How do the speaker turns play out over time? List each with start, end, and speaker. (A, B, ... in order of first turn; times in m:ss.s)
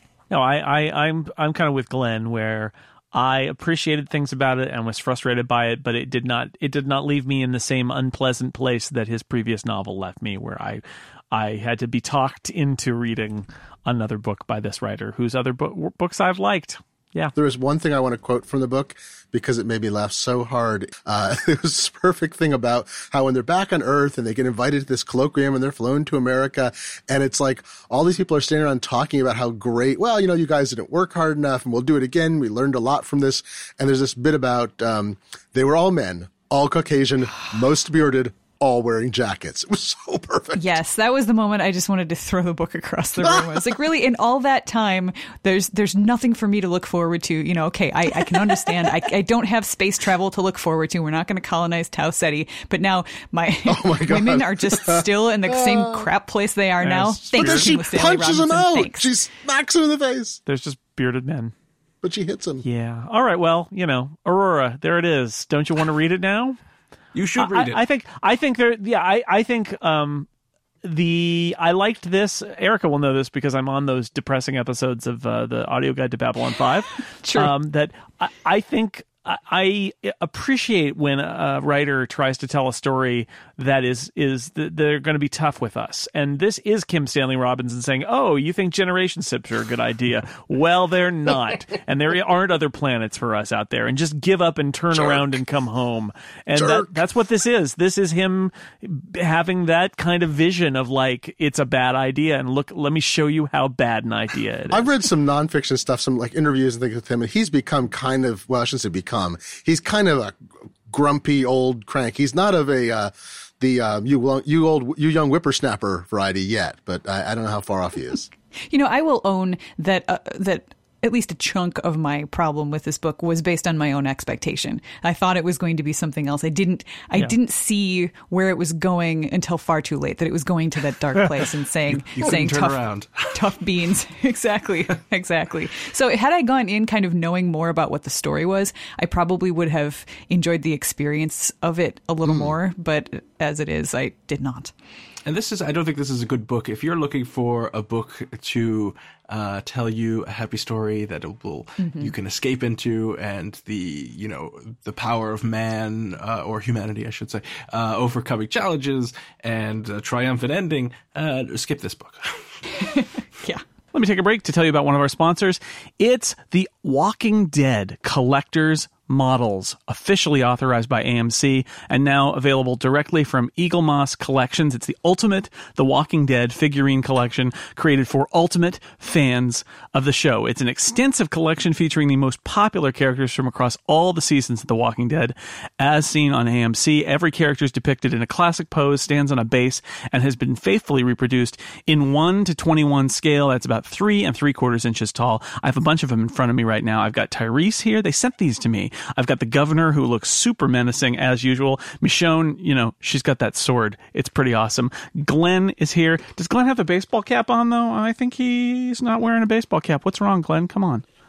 0:00.3-0:17.3 A
0:17.3-0:40.7 B
0:40.6-0:59.1 C
0:43.2-0:43.6 B
0:53.6-0:56.1 B
0:56.8-0:57.7 A
0:57.4-1:00.4 B
1:00.4-1:01.5 A
1:02.0-1:02.6 B
1:02.6-1:06.6 A
1:07.1-1:07.8 D
1:07.4-1:10.3 A
1:10.8-1:44.9 A
1:17.2-1:17.5 C
1:34.9-1:35.4 B
1:36.5-1:37.0 B
1:44.7-1:50.4 B
1:50.9-1:58.3 B
1:58.7-2:24.7 C
2:11.9-2:13.5 D
2:22.2-2:22.5 B
2:25.2-2:42.4 D
2:31.8-2:32.1 C
2:42.8-2:43.6 C
2:43.9-3:31.0 A